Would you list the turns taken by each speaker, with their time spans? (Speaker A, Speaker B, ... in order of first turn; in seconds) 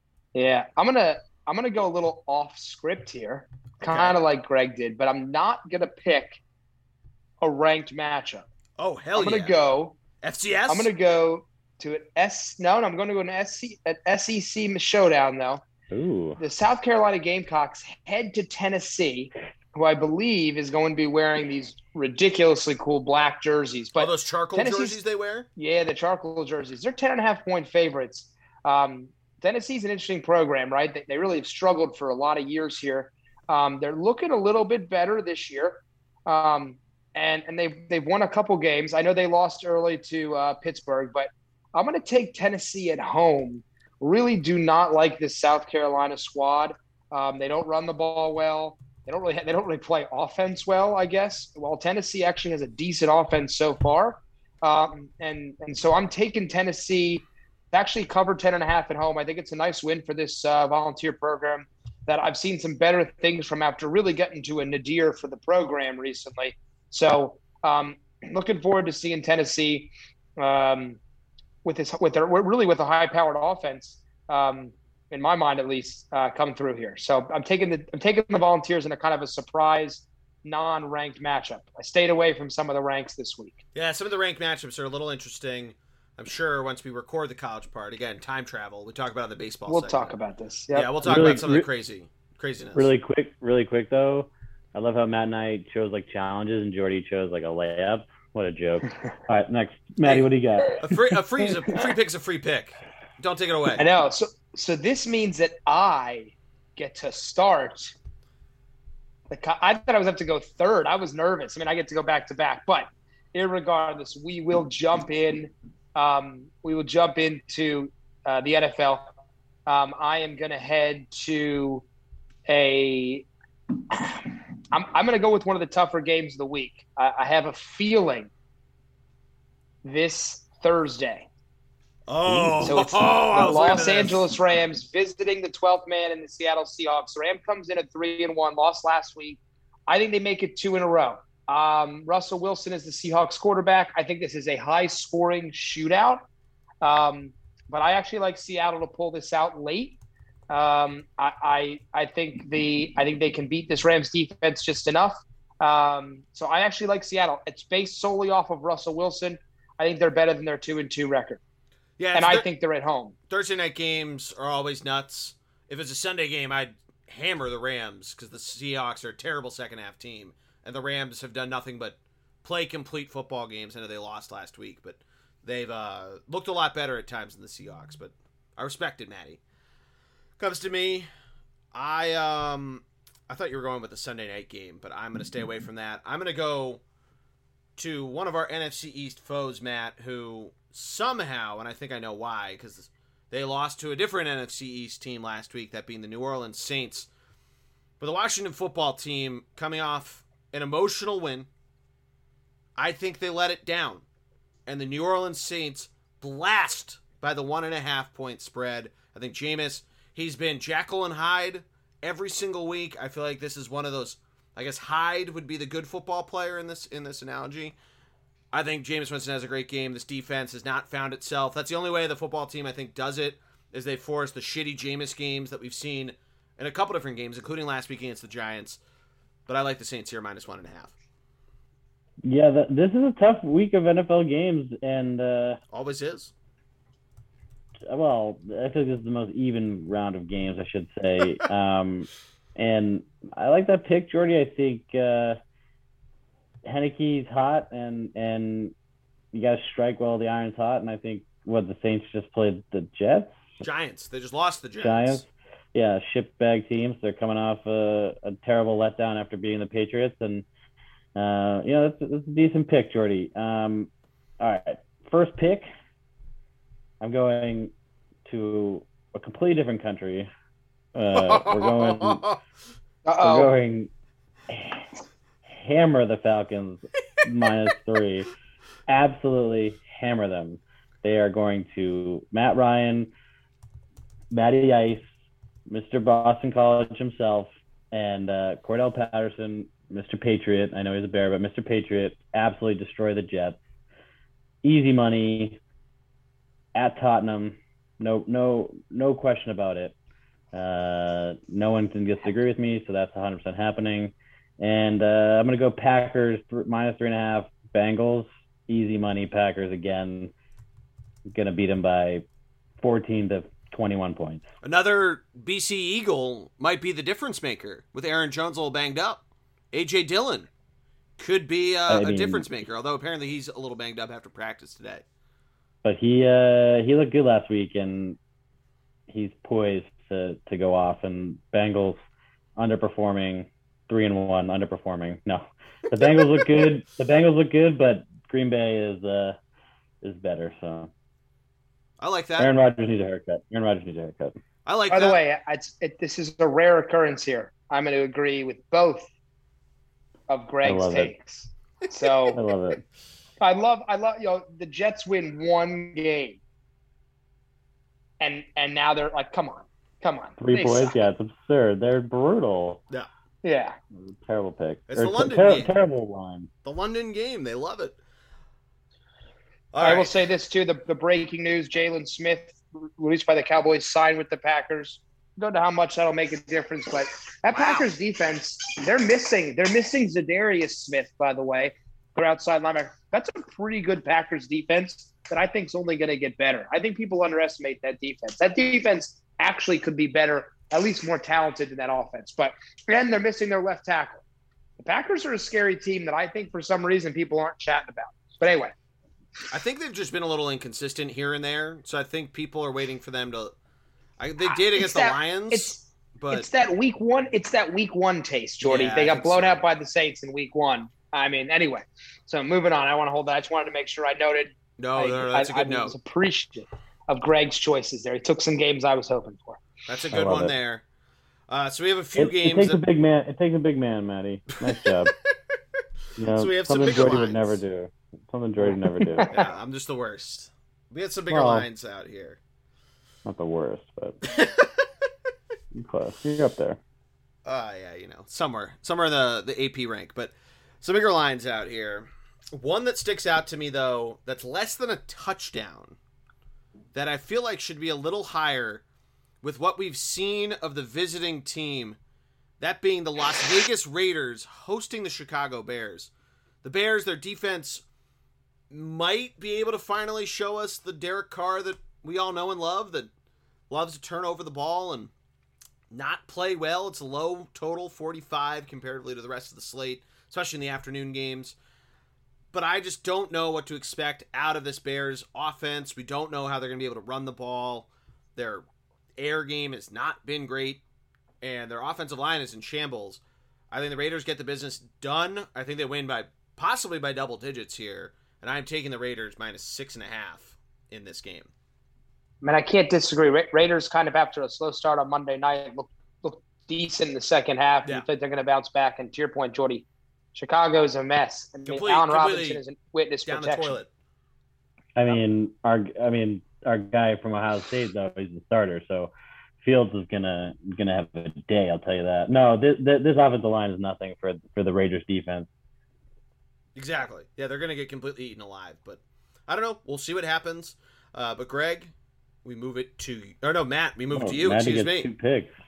Speaker A: 0.3-6.4, 7.4-8.5, 9.2-10.0, 10.7-15.6, 16.4-25.0, 25.6-71.0, 71.6-83.6, 89.7-91.2, 103.7-107.9, 109.3-119.1, 119.7-121.8, 122.5-123.3, 123.9-128.3, 129.8-131.3, 132.6-146.2, 146.8-161.4, 162.1-163.2, 273.0-273.5, 344.9-349.1, 350.3-352.4, 353.4-356.4, 358.2-361.0, 363.4-363.8, 369.8-394.2, 394.8-398.7, 404.4-419.6, 428.6-429.5, 492.4-503.8
Speaker B: 3.8-4.2, 8.8-9.6, 10.2-10.9, 24.0-25.5, 83.7-90.1, 90.7-92.9, 100.8-103.9, 132.1-134.3, 162.0-162.4, 163.3-179.4, 180.4-181.1, 181.7-186.8, 187.8-197.1, 198.0-201.5, 202.8-204.0, 204.7-217.7, 218.5-228.8, 229.5-230.9, 235.7-236.3, 253.6-255.2, 271.1-272.4, 314.6-320.5, 321.2-325.0, 342.0-342.5, 344.6-345.2, 364.9-365.7, 366.6-368.0, 369.7-370.2, 377.5-377.9, 399.5-403.5, 404.2-406.5, 408.6-409.6, 414.8-415.9, 419.9-420.8, 421.5-422.8, 426.3-427.6, 429.3-432.4, 434.2-434.9, 437.4-446.0, 446.9-448.8, 449.4-452.0, 452.6-456.1, 456.6-457.8, 458.7-463.1, 463.7-465.1, 465.9-471.6, 472.5-478.6, 479.2-480.8, 481.4-491.5, 501.6-502.6, 503.2-503.9, 516.8-521.9, 522.4-525.1
Speaker C: 15.9-16.4, 91.0-91.7, 92.7-100.9, 132.3-133.4, 232.2-235.6, 237.8-245.4, 246.6-248.7, 249.3-253.6, 254.8-260.4, 261.1-263.9, 264.4-265.7, 267.0-267.7, 268.2-270.3, 270.9-272.2, 273.2-273.9, 274.5-274.9, 275.5-278.3, 278.9-283.1, 284.3-285.0, 285.7-293.6, 294.6-295.6, 296.7-299.9, 300.5-310.3, 311.3-312.2, 312.8-314.4, 321.9-322.4, 325.8-328.2, 329.1-332.0, 332.6-339.4, 340.0-340.9, 342.4-344.4, 350.6-351.1, 352.3-352.8, 360.4-362.8, 363.9-366.5, 420.1-420.5, 422.1-425.1, 426.2-429.3, 431.3-431.6, 433.2-434.2, 435.7-436.8, 504.9-515.5, 524.1-525.5